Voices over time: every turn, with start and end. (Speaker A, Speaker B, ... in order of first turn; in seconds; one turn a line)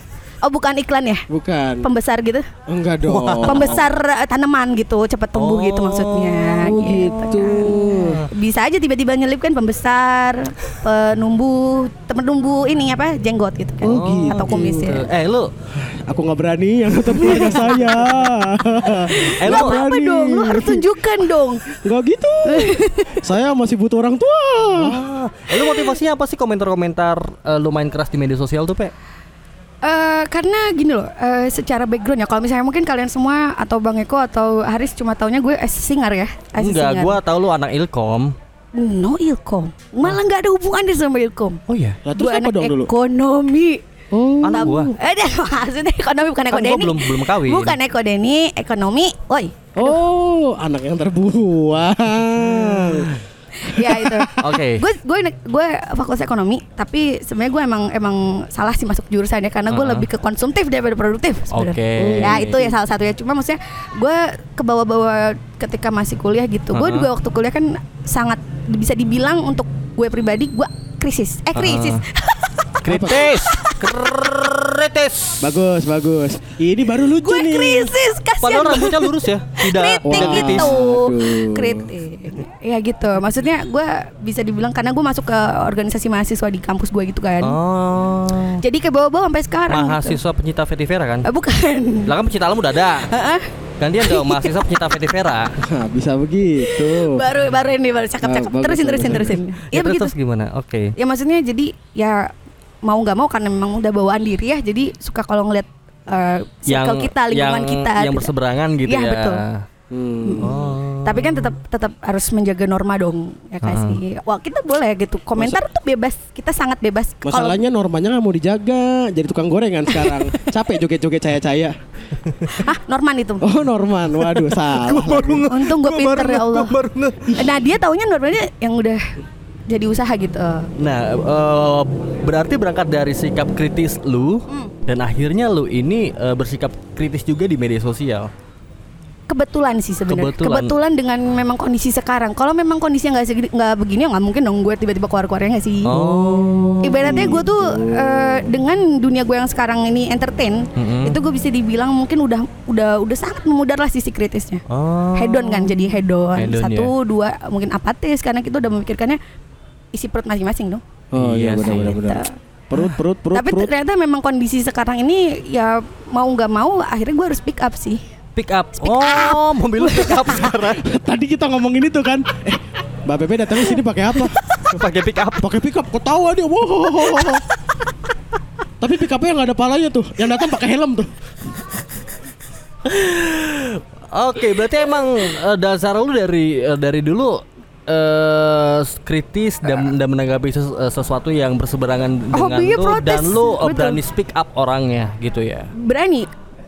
Speaker A: 0.4-1.3
Speaker B: 1.3-1.9
Speaker A: 1.8-2.5
Speaker B: 2.7-3.8
Speaker C: 3.1-3.8
Speaker A: 3.5-15.1
Speaker C: 5.3-8.3
Speaker B: 6.6-8.2
Speaker B: 13.8-14.7
Speaker C: 13.8-15.5
Speaker B: 15.8-20.9
Speaker C: 17.2-18.0
Speaker A: 17.2-17.7
Speaker A: 18.9-21.7
Speaker C: 19.4-19.8
Speaker B: 21.8-25.0
Speaker A: 22.5-23.2
Speaker C: 24.8-28.9
Speaker A: 25.6-25.9
Speaker A: 29.8-37.2
Speaker C: 36.6-38.3
Speaker A: 38.8-41.6
Speaker C: 41.7-42.0
Speaker B: 42.0-42.9
Speaker A: 42.1-43.8
Speaker B: 44.1-44.9
Speaker C: 44.5-44.9
Speaker A: 44.5-50.0
Speaker C: 46.5-47.8
Speaker B: 49.8-54.3
Speaker C: 52.6-53.0
Speaker A: 53.6-73.8
Speaker C: 54.4-54.8
Speaker C: 59.7-60.1
Speaker C: 61.5-62.6
Speaker B: 62.0-62.7
Speaker C: 66.7-67.1
Speaker C: 71.5-72.0
Speaker C: 72.8-75.5
Speaker B: 72.9-73.3
Speaker B: 75.4-78.0
Speaker A: 77.2-87.6
Speaker C: 78.4-80.8
Speaker B: 80.1-81.9
Speaker C: 87.4-88.6
Speaker A: 88.6-90.2
Speaker C: 89.7-91.3
Speaker A: 91.3-92.1
Speaker C: 92.0-93.1
Speaker A: 93.1-93.5
Speaker C: 93.8-95.5
Speaker A: 94.0-94.7
Speaker B: 95.6-97.2
Speaker A: 96.7-100.1
Speaker B: 98.2-99.4
Speaker C: 99.7-100.9
Speaker A: 101.0-102.2
Speaker A: 102.9-108.3
Speaker C: 106.7-109.6
Speaker A: 108.9-109.4
Speaker B: 109.9-110.5
Speaker A: 110.2-117.6
Speaker C: 110.4-111.5
Speaker C: 113.6-114.0
Speaker B: 117.2-121.8
Speaker A: 119.9-120.5
Speaker A: 122.5-123.5
Speaker B: 123.4-125.5
Speaker C: 124.2-127.3
Speaker A: 125.5-126.8
Speaker B: 127.2-127.6
Speaker A: 127.4-129.0
Speaker A: 129.7-130.7
Speaker C: 130.8-138.3
Speaker A: 134.5-134.8
Speaker A: 139.3-145.9
Speaker C: 140.1-140.8
Speaker C: 145.9-147.4
Speaker A: 146.8-154.6
Speaker B: 147.0-148.4
Speaker C: 150.8-151.2
Speaker C: 154.7-156.9
Speaker A: 155.2-159.2
Speaker A: 159.9-160.8
Speaker B: 161.1-163.7
Speaker C: 161.2-162.0
Speaker A: 162.0-162.3
Speaker A: 163.3-168.0
Speaker C: 168.4-170.9
Speaker A: 168.8-170.6
Speaker B: 170.8-174.4
Speaker C: 174.5-175.5
Speaker B: 175.4-177.4
Speaker C: 177.0-177.3
Speaker B: 178.8-181.1
Speaker C: 182.9-195.7
Speaker A: 192.3-194.0
Speaker A: 195.8-196.3